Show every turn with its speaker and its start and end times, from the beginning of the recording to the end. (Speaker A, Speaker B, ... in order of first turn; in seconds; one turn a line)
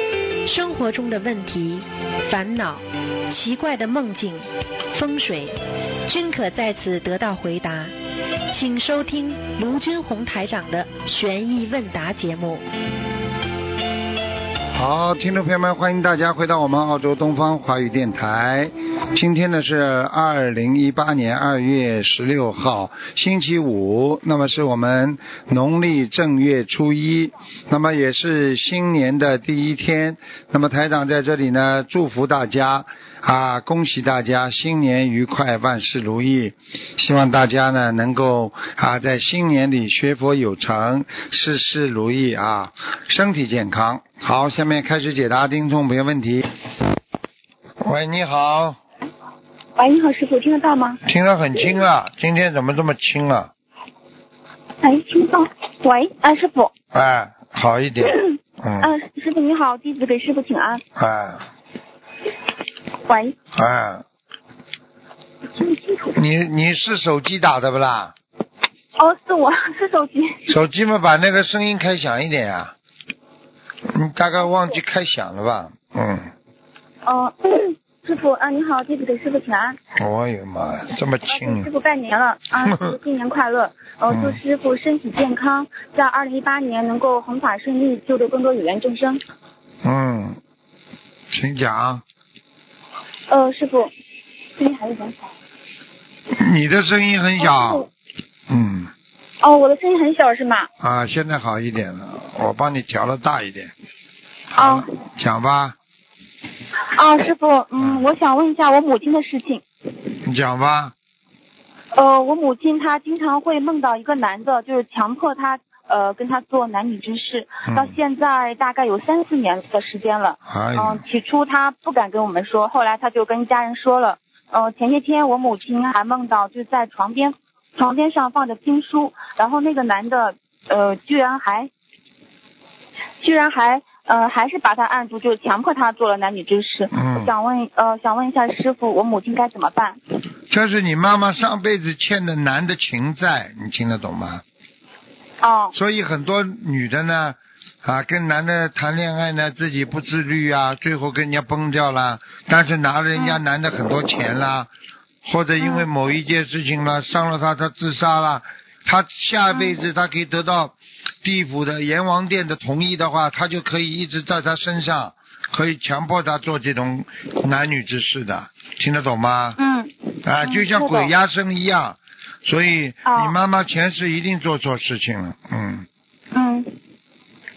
Speaker A: 0.5-5.5
Speaker A: 6.1-7.9
Speaker A: 8.5-12.6
Speaker B: 14.7-46.5
Speaker B: 47.8-48.8
Speaker C: 49.8-51.0
Speaker B: 51.0-53.5
Speaker C: 54.8-56.7
Speaker B: 56.9-58.9
Speaker C: 58.8-60.8
Speaker B: 61.0-61.5
Speaker C: 63.1-63.4
Speaker B: 63.5-64.0
Speaker C: 65.6-66.0
Speaker B: 66.1-68.1
Speaker C: 69.0-70.5
Speaker B: 70.5-72.7
Speaker B: 73.9-76.3
Speaker C: 77.1-79.8
Speaker B: 80.0-81.7
Speaker C: 81.3-89.2
Speaker B: 84.1-84.4
Speaker B: 89.8-90.4
Speaker B: 91.3-92.0
Speaker C: 93.3-93.9
Speaker C: 94.6-95.3
Speaker B: 96.3-97.9
Speaker C: 97.4-97.9
Speaker B: 98.5-98.9
Speaker C: 99.4-100.7
Speaker B: 100.8-103.7
Speaker B: 104.5-105.8
Speaker C: 104.6-104.8
Speaker C: 106.9-109.6
Speaker B: 107.8-108.0
Speaker B: 110.2-110.9
Speaker C: 112.0-131.7
Speaker B: 117.7-118.0
Speaker B: 120.5-121.0
Speaker C: 133.2-140.0
Speaker B: 136.9-137.3
Speaker B: 140.5-144.4
Speaker C: 145.4-145.7
Speaker B: 145.7-154.7
Speaker C: 153.2-153.4
Speaker B: 155.2-169.6
Speaker C: 155.6-155.9
Speaker C: 159.5-159.8
Speaker C: 169.6-171.1
Speaker B: 170.2-175.9
Speaker C: 173.1-173.3
Speaker C: 176.3-176.8